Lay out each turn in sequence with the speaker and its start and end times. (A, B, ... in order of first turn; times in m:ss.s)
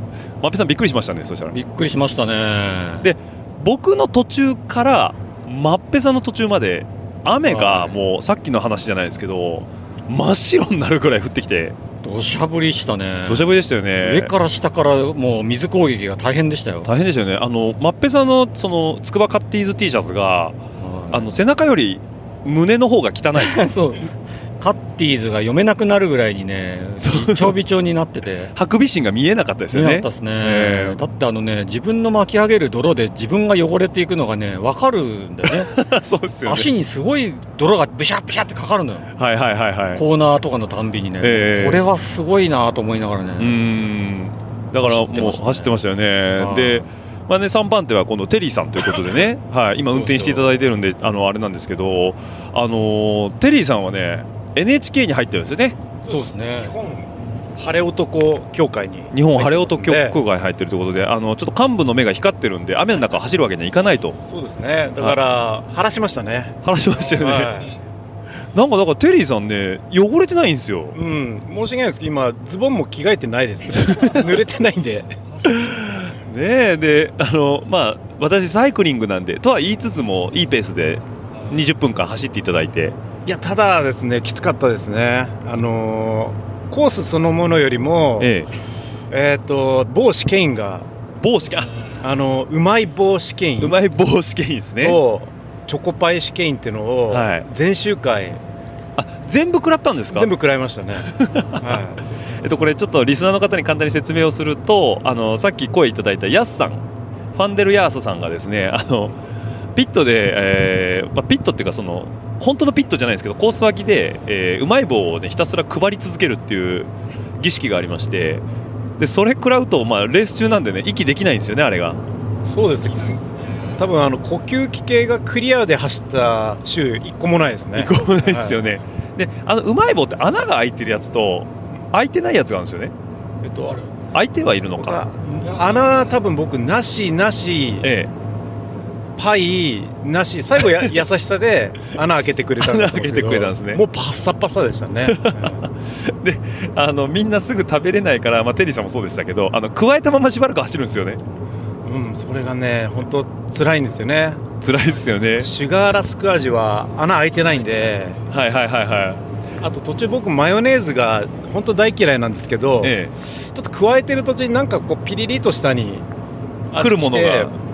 0:00.4-0:01.6 A
0:01.5-0:03.1 B
0:03.0-0:11.8 A
0:07.4-0:08.0 B
0:12.0-0:16.9 B
0:13.3-0:14.3 A
0:16.8-0:20.6 A
0:20.8-0:21.3 B
0:21.1-0:23.6 A
0:23.4-0:28.5 B
0:27.0-0:27.6 A
0:28.5-0:31.0 A
0:29.7-0:35.7 B
0:35.5-0:36.7 A
0:36.4-0:39.1 B
0:39.2-0:40.0 A
0:39.9-0:43.6 B
0:41.2-0:41.8 A
0:43.4-0:55.8 A
0:44.8-0:45.8 B
0:46.4-0:46.9 B
0:49.9-0:50.6 B
0:56.0-0:56.7 B
0:56.0-1:00.2 C
0:59.1-1:04.2 A
1:04.3-1:07.8 C
1:06.6-1:07.7 A
1:08.5-1:11.0 A
1:10.9-1:15.2 C
1:13.7-1:14.4 A
1:15.4-1:23.0 A
1:23.2-1:28.3 C
1:28.2-1:28.5 A
1:29.1-1:30.9 C
1:31.2-1:31.7 A
1:32.0-1:33.8 C
1:33.6-1:35.0 A
1:34.8-1:38.4 C
1:37.1-1:37.5 A
1:39.0-1:40.3 A
1:40.1-1:42.0 C
1:41.0-1:41.8 A
1:42.4-1:46.8 A
1:47.3-1:49.1 A
1:49.7-1:58.4 A
1:59.0-2:02.0 A
2:02.4-2:03.2 C
2:03.8-2:08.6 C
2:07.7-2:12.9 A
2:13.4-2:13.8 C
2:14.1-2:15.0 A
2:14.7-2:17.9 C
2:17.8-2:18.1 A
2:19.2-2:25.6 C
2:22.6-2:23.8 A
2:25.0-2:31.2 A
2:31.8-2:34.6 C
2:34.6-2:35.5 A
2:35.2-2:38.2 C
2:38.3-2:39.2 A
2:39.6-2:46.0 C
2:42.8-2:43.1 A
2:46.7-2:47.6 C
2:46.8-2:47.5 A